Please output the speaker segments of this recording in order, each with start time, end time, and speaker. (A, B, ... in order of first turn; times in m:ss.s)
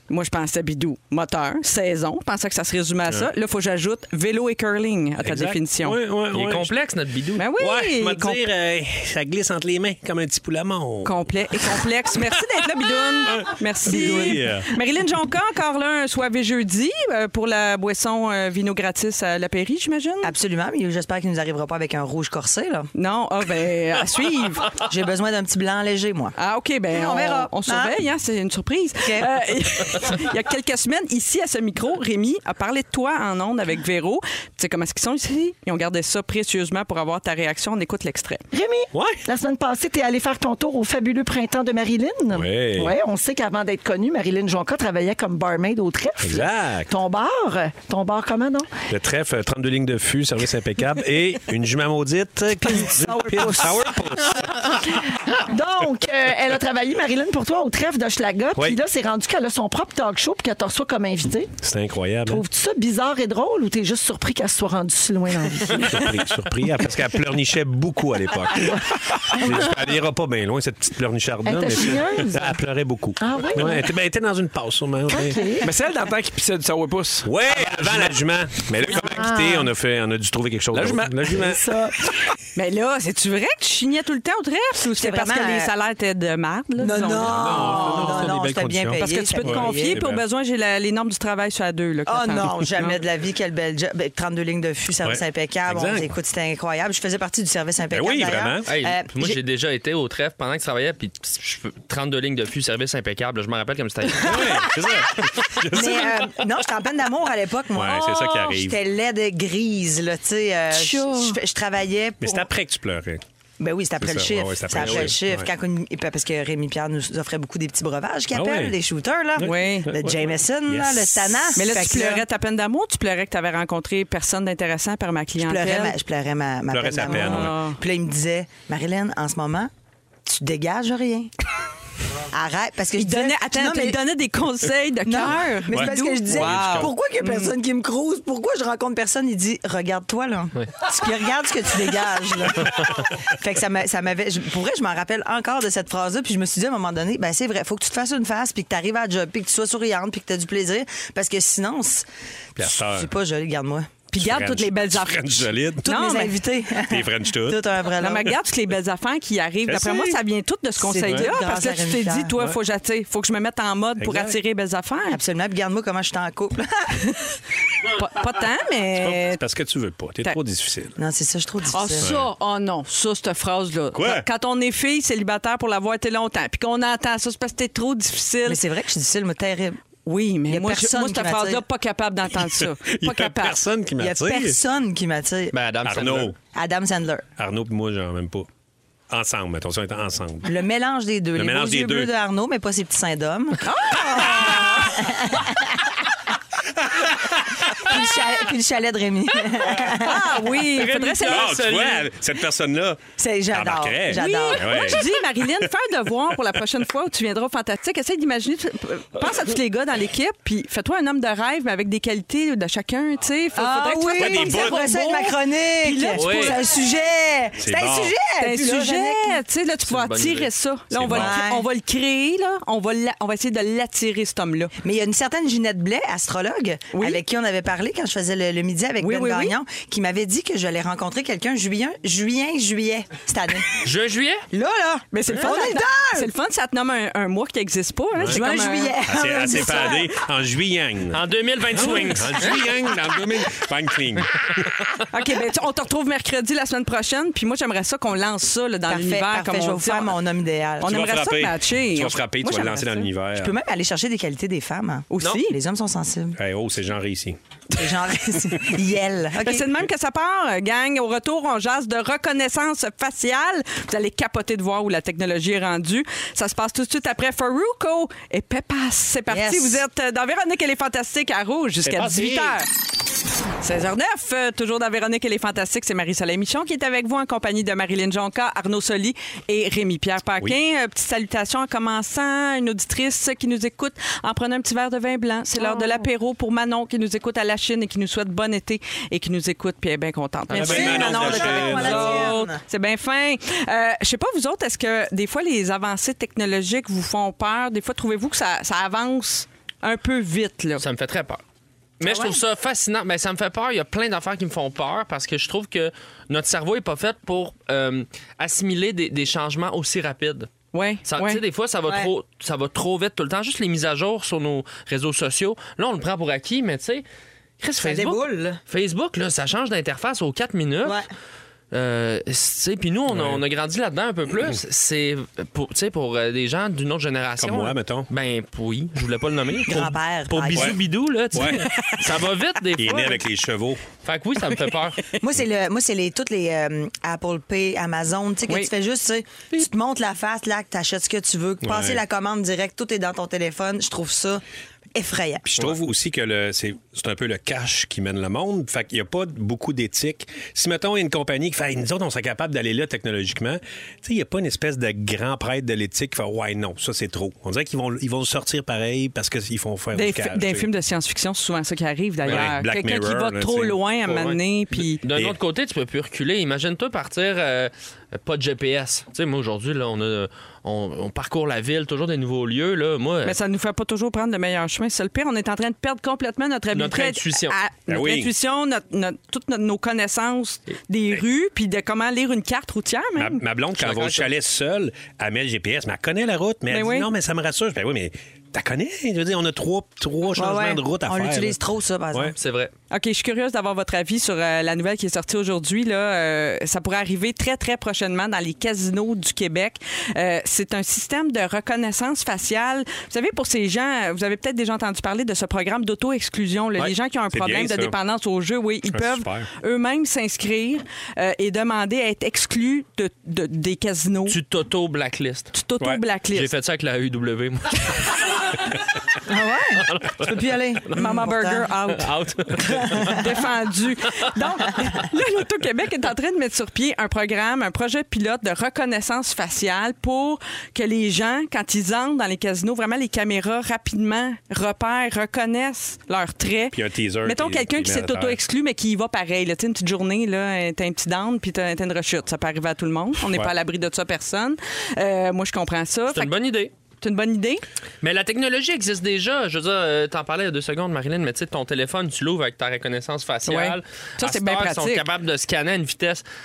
0:00.1-0:06.0 A
0:05.2-0:06.7 B
0:06.3-0:07.5 C
0:07.4-0:08.5 A
0:07.6-0:12.3 B
0:11.0-0:20.3 A
0:13.2-0:14.7 B
0:13.9-0:14.4 D
0:20.2-0:22.9 D
0:23.0-0:24.7 A
0:24.8-0:26.4 D
0:26.4-0:38.4 A
0:26.9-0:28.0 D
0:29.0-0:29.3 D
0:38.5-0:48.7 E
0:38.9-0:39.2 B
0:42.3-0:43.0 B
0:46.2-0:46.9 B
0:48.9-0:54.6 B
0:52.7-1:01.5 E
1:01.6-1:02.4 B
1:02.3-1:06.2 E
1:05.8-1:15.4 B
1:08.5-1:09.7 E
1:11.4-1:12.6 E
1:13.2-1:13.9 E
1:15.1-1:15.7 E
1:15.6-1:18.2 F
1:17.2-1:21.6 B
1:18.9-1:19.7 E
1:20.7-1:21.6 F
1:21.4-1:22.2 E
1:22.6-1:28.3 A
1:25.0-1:25.7 D
1:26.8-1:30.0 D
1:27.2-1:30.2 B
1:29.0-1:33.0 A
1:32.1-1:39.4 D
1:35.0-1:36.1 B
1:37.9-1:38.7 B
1:38.7-1:45.6 C
1:44.2-1:46.3 B
1:44.3-1:45.0 D
1:45.7-1:52.5 D
1:47.7-1:48.8 B
1:50.7-1:51.4 A
1:52.2-1:53.2 B
1:53.6-2:02.2 D
1:54.0-1:55.5 B
1:54.7-1:55.2 C
1:58.3-1:58.8 B
1:59.4-2:01.7 B
1:59.4-1:59.9 A
2:01.6-2:06.0 A
2:05.4-2:09.7 D
2:06.7-2:07.6 B
2:07.0-2:07.8 A
2:10.3-2:11.3 D
2:12.3-2:14.0 D
2:13.0-2:17.5 A
2:15.1-2:32.0 D
2:15.7-2:16.9 B
2:32.6-2:33.1 B
2:32.6-2:34.0 D
2:34.1-2:36.4 A
2:34.1-2:36.0 B
2:35.8-2:38.4 D
2:36.8-2:37.7 B
2:38.0-2:45.2 A
2:39.6-2:40.2 B
2:40.8-2:42.3 D
2:41.0-2:41.3 B
2:44.0-2:44.4 B
2:45.1-2:47.1 D
2:47.8-2:49.4 A
2:49.0-2:51.0 B
2:51.0-2:52.1 D
2:51.7-2:58.6 A
2:52.0-2:52.3 B
2:53.9-2:54.3 B
2:58.5-2:59.8 D
3:00.1-3:03.6 A
3:00.5-3:01.6 D
3:02.4-3:04.6 B
3:04.0-3:05.6 D
3:05.5-3:06.3 C
3:05.8-3:06.4 B
3:06.5-3:07.2 D
3:07.4-3:08.5 B
3:09.1-3:10.5 B
3:10.4-3:15.9 D
3:11.4-3:12.1 B
3:13.6-3:14.7 A
3:14.1-3:14.9 B
3:16.8-3:18.0 B
3:17.7-3:20.2 D
3:19.9-3:21.5 A
3:20.6-3:22.1 C
3:21.3-3:25.7 B
3:23.2-3:25.0 D
3:24.1-3:36.6 A
3:33.6-3:39.4 D
3:34.2-3:35.1 B
3:36.1-3:36.6 C
3:37.6-3:38.2 B
3:38.4-3:44.7 A
3:39.9-3:40.5 C
3:40.9-3:41.4 B
3:41.1-3:41.7 D
3:44.8-3:53.8 D
3:46.9-3:47.2 A
3:49.0-3:49.6 A
3:53.8-3:54.4 C
3:54.5-3:56.3 D
3:55.1-3:59.0 A
3:58.2-3:58.4 B
3:58.3-4:00.1 D
3:59.1-4:04.7 B
4:01.1-4:02.9 C
4:01.8-4:02.1 A
4:05.1-4:10.1 A
4:08.9-4:11.0 D
4:10.8-4:13.1 A
4:10.8-4:13.6 B
4:13.4-4:16.4 D
4:15.1-4:15.6 A
4:16.4-4:17.4 B
4:17.7-4:19.7 D
4:19.4-4:32.7 A
4:29.3-4:29.8 D
4:31.8-4:32.6 B
4:33.6-5:00.8 A
4:50.5-4:52.3 B
4:50.5-4:52.6 D
5:00.8-5:01.4 C
5:02.0-5:10.5 C
5:02.1-5:02.4 D
5:10.7-5:11.4 A
5:11.1-5:17.0 C
5:17.6-5:21.0 C
5:17.8-5:18.6 D
5:21.7-5:33.2 C
5:23.1-5:23.4 B
5:27.4-5:28.1 B
5:29.7-5:30.8 D
5:31.3-5:31.7 B
5:32.8-5:33.8 B
5:34.0-5:35.0 C
5:35.2-5:44.4 D
5:41.6-5:42.0 B
5:45.0-5:45.5 D
5:45.5-6:00.7 B
5:59.9-6:05.0 A
6:02.2-6:02.5 C
6:02.3-6:03.8 B
6:04.1-6:04.4 C
6:05.0-6:13.4 C
6:13.2-6:23.4 A
6:16.7-6:17.6 C
6:17.9-6:18.3 B
6:23.2-6:31.6 B
6:23.8-6:24.3 C
6:26.7-6:27.1 A
6:30.4-6:32.4 D
6:32.4-6:32.7 C
6:32.9-6:54.4 A
6:46.8-6:48.0 B
6:48.9-6:49.5 B
6:54.3-6:55.5 C
6:55.5-6:56.5 A
6:56.3-6:58.6 C
6:59.3-7:01.7 D
6:59.8-7:01.0 C
7:00.9-7:02.1 A
7:02.0-7:03.2 C
7:02.9-7:03.2 D
7:02.9-7:26.3 A
7:16.7-7:18.4 B
7:23.2-7:23.5 B
7:26.1-7:26.7 C
7:27.0-7:27.6 A
7:28.0-7:36.2 C
7:33.5-7:35.0 A